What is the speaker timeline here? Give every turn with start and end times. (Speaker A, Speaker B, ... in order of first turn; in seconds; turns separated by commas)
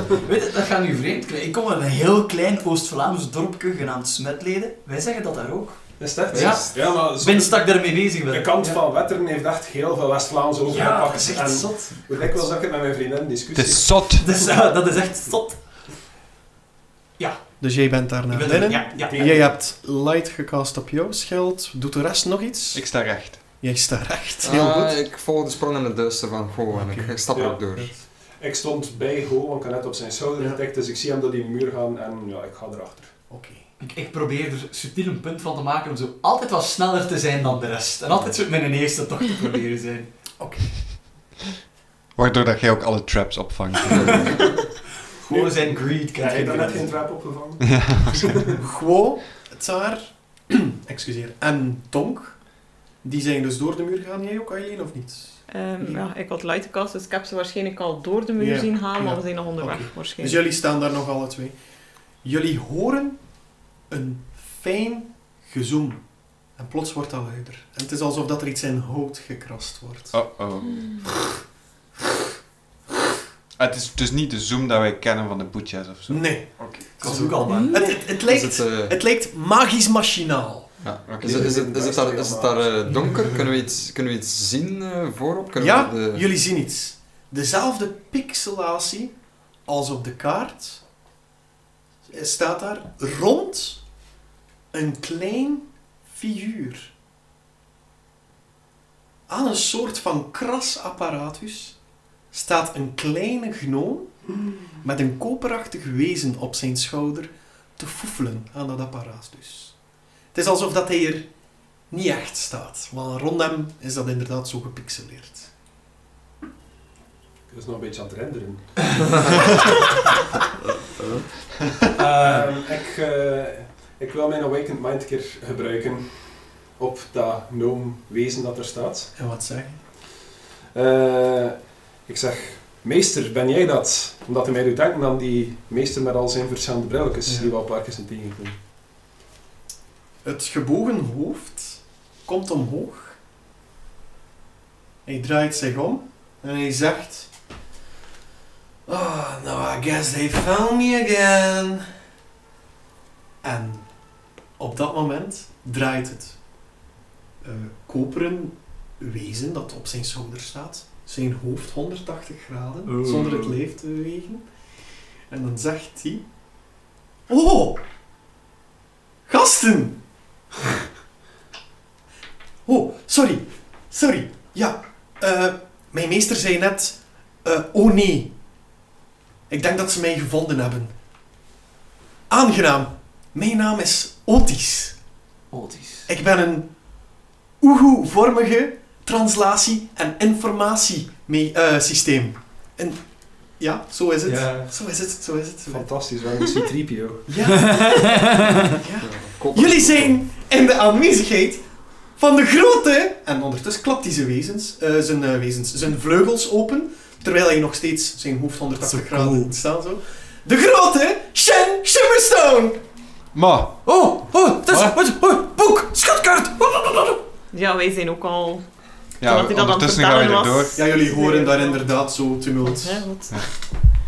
Speaker A: 0.2-8.8, Speaker B: 6.0-14.1, Speaker C: 6.3-6.9, Speaker A: 10.7-12.1, Speaker D: 13.5-14.2, Speaker A: 14.1-15.6, Speaker A: 17.2-17.5, Speaker E: 17.6-22.9, Speaker A: 18.3-19.4, Speaker B: 19.1-19.5, Speaker D: 22.7-23.4, Speaker E: 23.6-25.0, Speaker C: 24.4-27.9, Speaker E: 26.7-28.0, Speaker B: 27.3-33.1, Speaker E: 33.3-33.6, Speaker A: 33.8-40.1, Speaker E: 40.4-40.8, Speaker D: 42.1-44.4, Speaker A: 45.2-47.0, Speaker B: 45.3-48.5, Speaker D: 47.6-48.4, Speaker E: 48.6-56.0, Speaker F: 55.5-60.4, Speaker E: 58.4-61.5, Speaker E: 62.2-63.2, Speaker E: 63.9-66.0, Speaker E: 66.5-70.2, Speaker D: 70.1-71.1, Speaker D: 73.6-77.0, Speaker E: 76.1-80.8, Speaker A: 77.0-78.0, Speaker C: 78.0-78.9, Speaker C: 80.8-86.2, Speaker D: 81.1-81.4, Speaker B: 81.2-83.0, Speaker E: 85.6-89.1, Speaker E: 89.7-90.8, Speaker E: 92.0-93.8, Speaker E: 94.7-96.9, Speaker E: 99.3-101.8, Speaker E: 102.3-104.1, Speaker E: 104.8-109.8, Speaker E: 110.3-111.3, Speaker E: 111.9-115.5, Speaker B: 117.5-119.7, Speaker A: 122.0-122.5, Speaker B: 122.0-129.1, Speaker E: 129.2-129.8, Speaker B: 130.7-138.5, Speaker E: 137.2-137.5, Speaker E: 140.2-143.2, Speaker E: 145.1-147.3, Speaker E: 148.9-151.9, Speaker E: 153.4-153.9, Speaker E: 154.6-156.4, Speaker E: 157.4-164.4, Speaker A: 162.8-163.6, Speaker E: 165.3-166.2, Speaker E: 167.3-167.8, Speaker E: 169.3-170.0, Speaker E: 172.7-178.3, Speaker E: 179.5-180.9, Speaker E: 182.3-185.0, Speaker A: 185.5-186.1, Speaker E: 186.1-186.7, Speaker E: 187.6-193.0, Speaker E: 193.6-195.9, Speaker A: 194.3-194.7, Speaker B: 195.7-197.3, Speaker E: 197.3-212.8, Speaker A: 197.6-198.6, Speaker C: 199.0-200.2, Speaker A: 208.9-209.5, Speaker D: 213.3-213.8, Speaker A: 213.8-217.2, Speaker F: 217.5-218.6, Speaker D: 219.2-220.8, Speaker F: 219.2-221.9, Speaker E: 220.8-223.1, Speaker F: 222.6-223.4